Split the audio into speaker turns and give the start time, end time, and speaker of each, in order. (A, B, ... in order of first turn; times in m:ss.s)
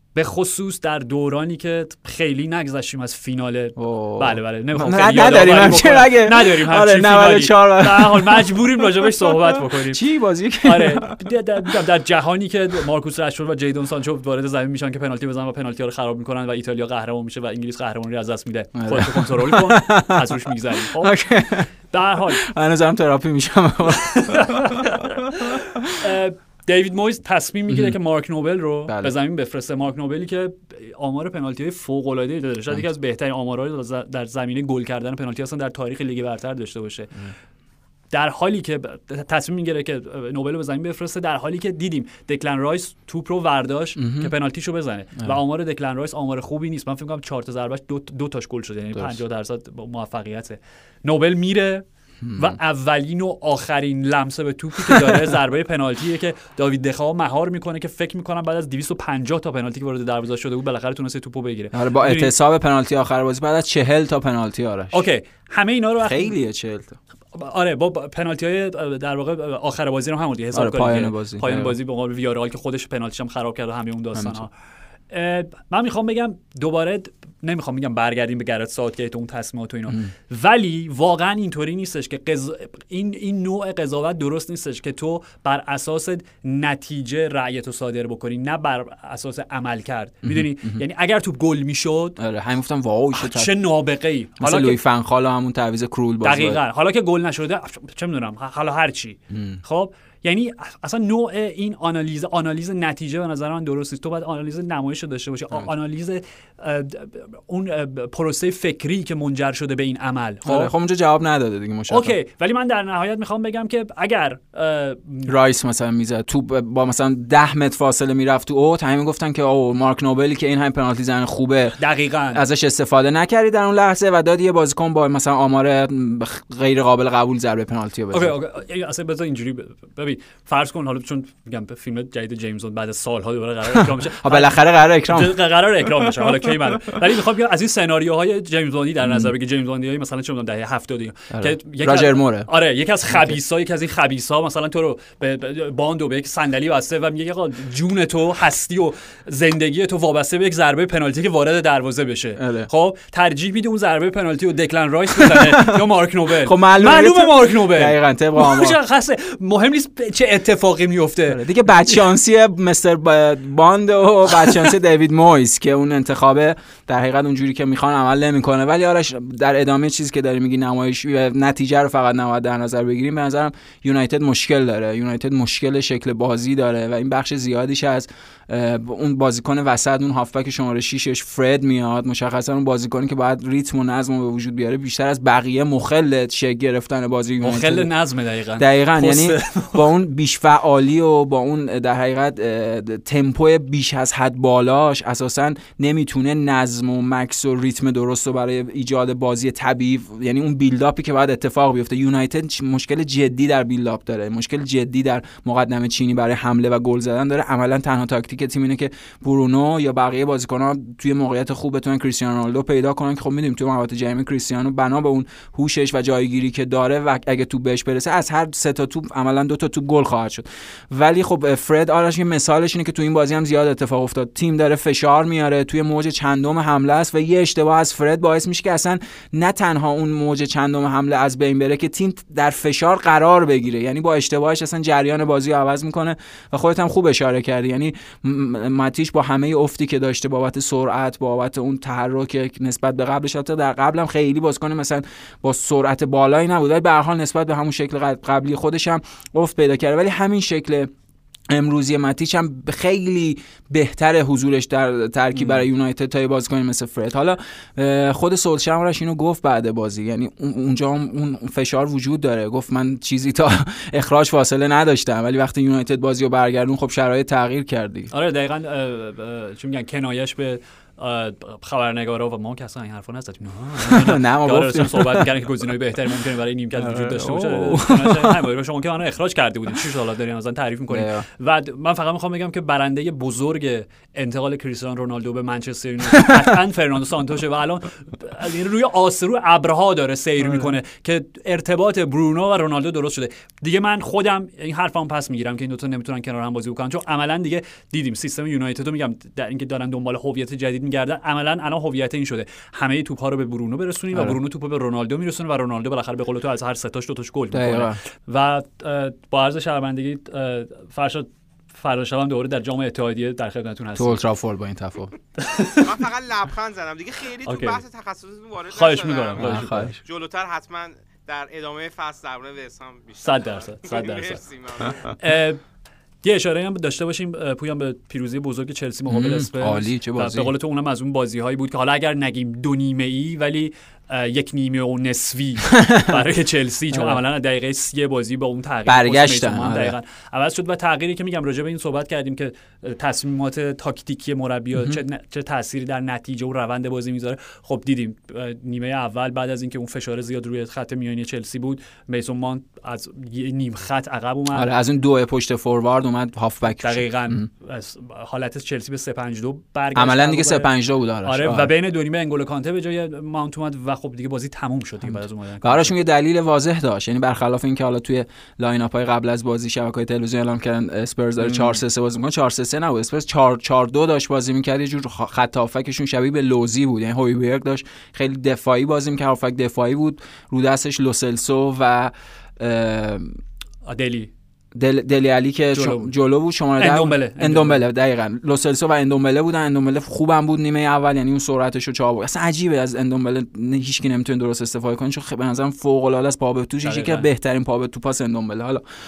0:00.2-0:10.0 A
0:03.8-0:11.2 B
0:10.6-0:21.2 A
0:18.8-0:20.4 B
0:21.0-0:21.7 B
0:21.7-0:22.4 A
0:22.4-0:25.9 B
0:24.1-0:37.3 A
0:28.9-0:29.1 B
0:38.1-0:51.8 A
0:44.0-0:44.3 B
0:52.2-0:52.6 B
0:52.4-1:02.3 A
0:54.9-0:55.2 B
1:01.7-1:04.9 B
1:04.9-1:06.3 A
1:06.0-1:07.0 B
1:07.3-1:14.5 A
1:10.5-1:11.8 B
1:14.2-1:14.4 B
1:15.1-1:32.2 A
1:30.2-1:30.8 B
1:32.2-1:33.5 B
1:33.1-1:34.8 A
1:34.4-1:36.6 B
1:36.2-1:50.7 A
1:39.3-1:39.6 B
1:50.4-1:52.2 B
1:51.9-1:55.3 A
1:55.3-2:01.8 B
2:01.8-2:02.4 A
2:02.3-2:08.3 B
2:08.1-2:41.5 A
2:14.2-2:15.4 B
2:19.0-2:19.3 B
2:21.3-2:22.5 B
2:23.1-2:23.4 B
2:32.4-2:32.7 B
2:35.2-2:35.8 B
2:36.4-2:38.8 B
2:41.3-3:07.9 B
3:07.4-3:09.9 A
3:08.6-4:10.9 B
4:11.5-4:28.1 B
4:15.4-4:15.7 A
4:28.1-5:14.2 A
4:33.8-4:35.3 B
4:36.8-4:38.4 B
4:40.9-4:41.3 B
4:50.4-4:50.7 B
5:07.5-5:08.0 B
5:14.0-5:15.1 B
5:15.4-5:15.9 A
5:15.7-5:25.2 C
5:17.4-5:17.8 A
5:18.7-5:20.0 A
5:19.4-5:19.9 B
5:23.2-5:24.4 A
5:25.2-5:25.6 A
5:26.2-5:54.7 A
5:29.1-5:30.5 B
5:35.7-5:36.2 B
5:36.9-5:37.2 B
5:38.9-5:40.0 B
5:54.5-5:57.5 B
5:56.8-6:00.7 A
6:00.0-6:01.7 B
6:01.2-6:06.0 A
6:05.6-6:23.4 B
6:11.4-6:11.8 A
6:23.8-6:24.3 A
6:24.7-6:38.8 B
6:25.7-6:26.1 A
6:26.8-6:27.8 A
6:36.8-6:37.3 A